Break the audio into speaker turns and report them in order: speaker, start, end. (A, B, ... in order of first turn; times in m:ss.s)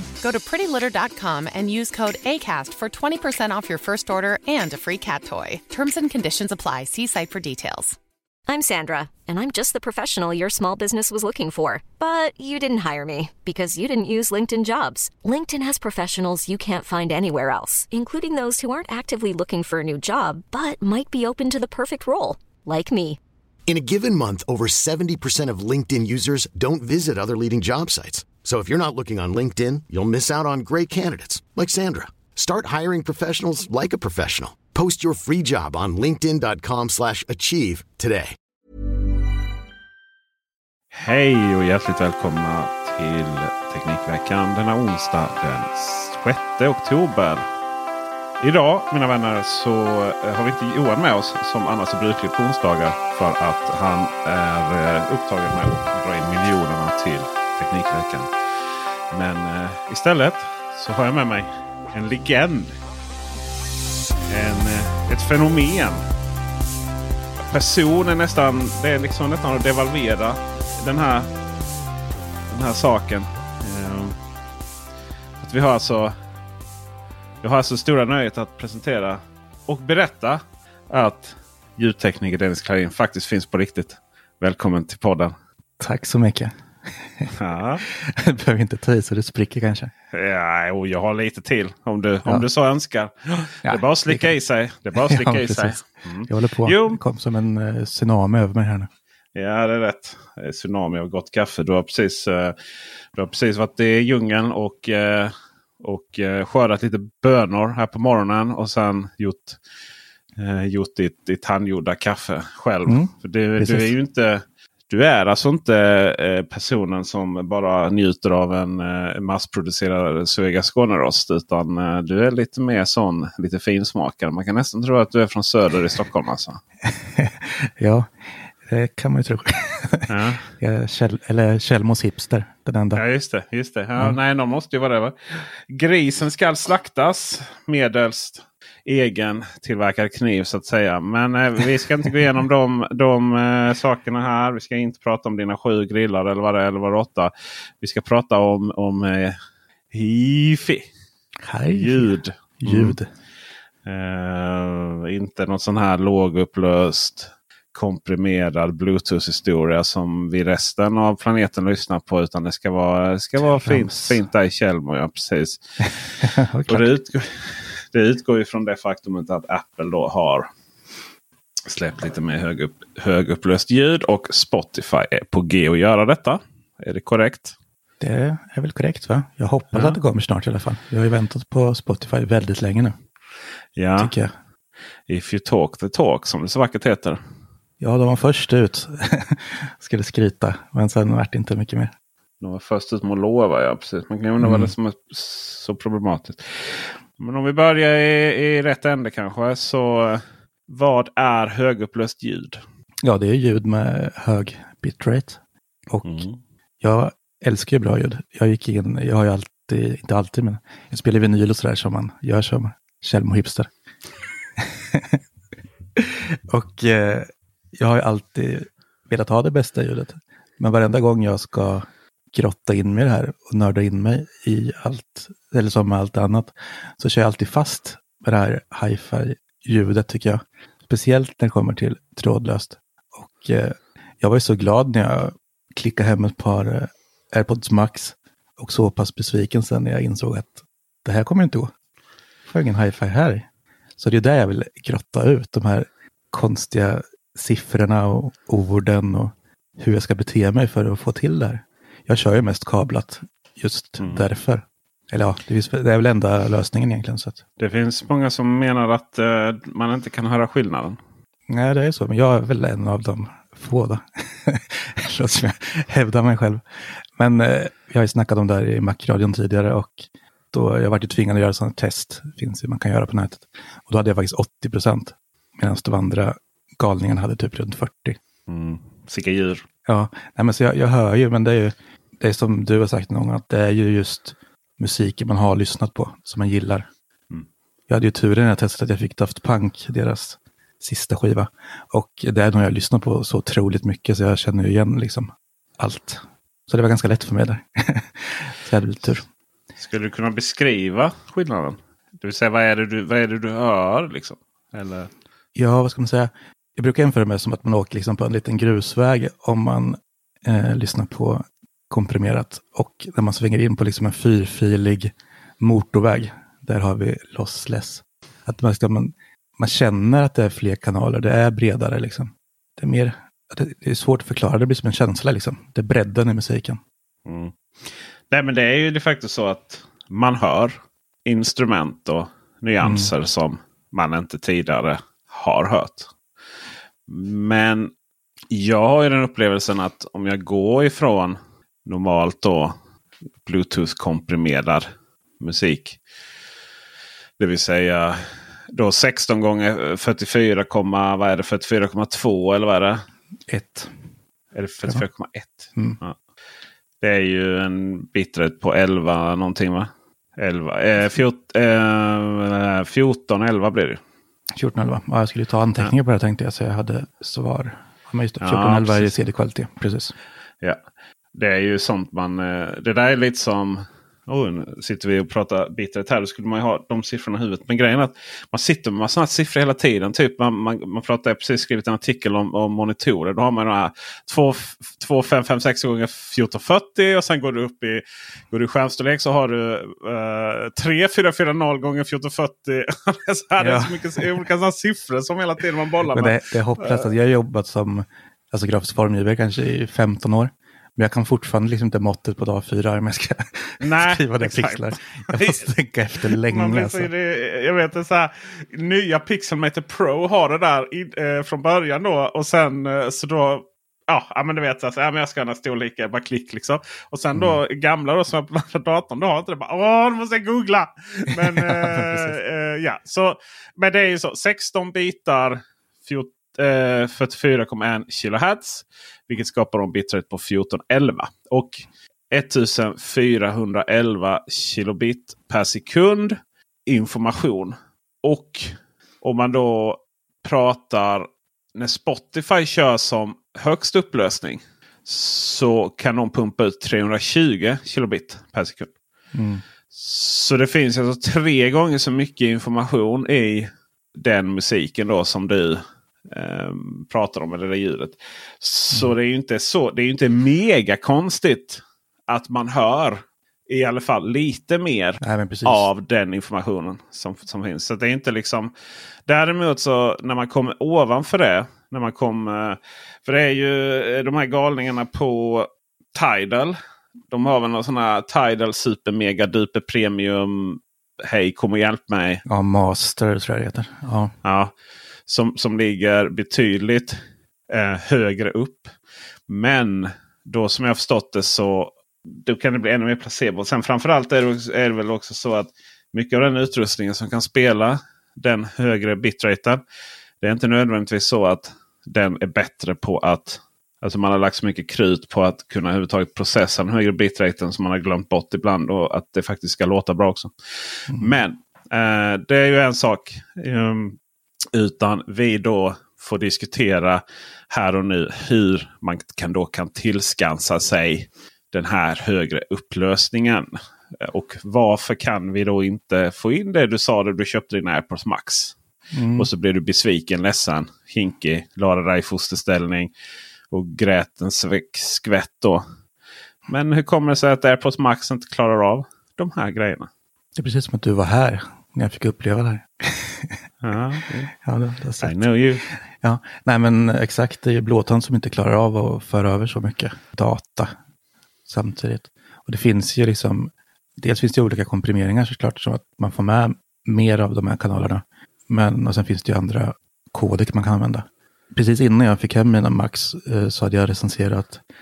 0:00.2-0:08.0 A
0:08.5-0:23.2 B
0:23.7-0:38.4 C
0:40.9-0:47.5 D
0:48.4-0:58.3 D
0:59.1-1:02.8 D
1:04.3-1:06.0 D
1:07.4-1:11.3 D
1:12.5-1:14.2 D
1:15.4-1:16.2 D
1:17.4-1:25.3 D
1:25.8-1:27.3 E
1:27.4-1:27.8 D
1:27.8-1:29.9 E
1:30.1-1:37.0 D
1:33.6-1:34.4 E
1:35.0-1:38.9 E
1:39.4-1:42.6 D
1:43.2-1:49.6 D
1:50.4-2:06.6 D
1:52.9-1:53.9 E
2:06.8-2:13.0 E
2:10.1-2:10.5 D
2:13.0-2:29.4 D
2:29.9-2:30.9 D
2:31.4-2:33.1 E
2:31.7-2:33.0 D
2:33.8-2:50.5 D
2:43.6-2:44.2 E
2:46.2-2:46.9 E
2:51.7-2:57.6 D
2:58.0-3:03.0 E
2:59.7-3:00.0 D
3:03.8-3:04.2 D
3:04.0-3:04.3 E
3:05.1-3:07.2 D
3:07.8-3:11.9 E
3:12.4-3:22.6 D
3:14.4-3:14.7 E
3:23.0-3:26.2 E
3:26.0-3:26.4 D
3:26.8-3:33.7 E
3:34.6-3:35.2 E
3:36.0-4:01.7 E
4:02.5-4:03.5 E
4:04.0-4:17.4 E
4:14.0-4:14.3 D
4:17.6-4:21.0 D
4:21.5-4:38.2 E
4:38.5-4:39.6 D
4:39.9-4:46.9 E
4:47.9-4:59.3 E
4:59.8-5:05.1 D
5:05.6-5:26.8 E
5:27.3-5:36.1 D
5:32.8-5:33.1 E
5:37.1-5:37.9 D
5:38.5-5:42.8 D
5:43.4-5:44.9 D
5:45.4-5:46.0 D
5:47.4-5:53.0 D
5:53.5-5:53.9 E
5:54.5-5:56.2 D
5:57.0-6:04.0 D
6:04.5-6:10.1 E
6:08.4-6:09.2 D
6:11.3-6:37.1 D
6:33.6-6:34.3 E
6:36.1-6:47.1 E
6:43.8-6:45.6 D
6:46.3-7:28.9 D
7:01.3-7:02.4 E
7:29.3-7:29.6 E
7:29.9-7:48.7 D
7:45.2-7:45.9 E
7:49.3-7:56.8 D
7:57.3-8:02.4 D
8:02.4-8:04.3 E
8:04.4-8:04.7 D
8:05.3-8:08.9 D
8:09.5-8:19.8 D
8:20.4-8:34.2 D
8:31.1-8:31.3 E
8:34.7-8:48.8 D
8:49.1-8:49.5 E
8:49.4-8:53.1 D
8:53.7-8:55.8 D
8:56.7-9:00.1 D
9:00.6-9:03.6 E
9:03.8-9:04.5 D
9:04.6-9:05.4 E
9:05.2-9:05.9 D
9:06.1-9:10.9 E
9:11.7-9:24.8 E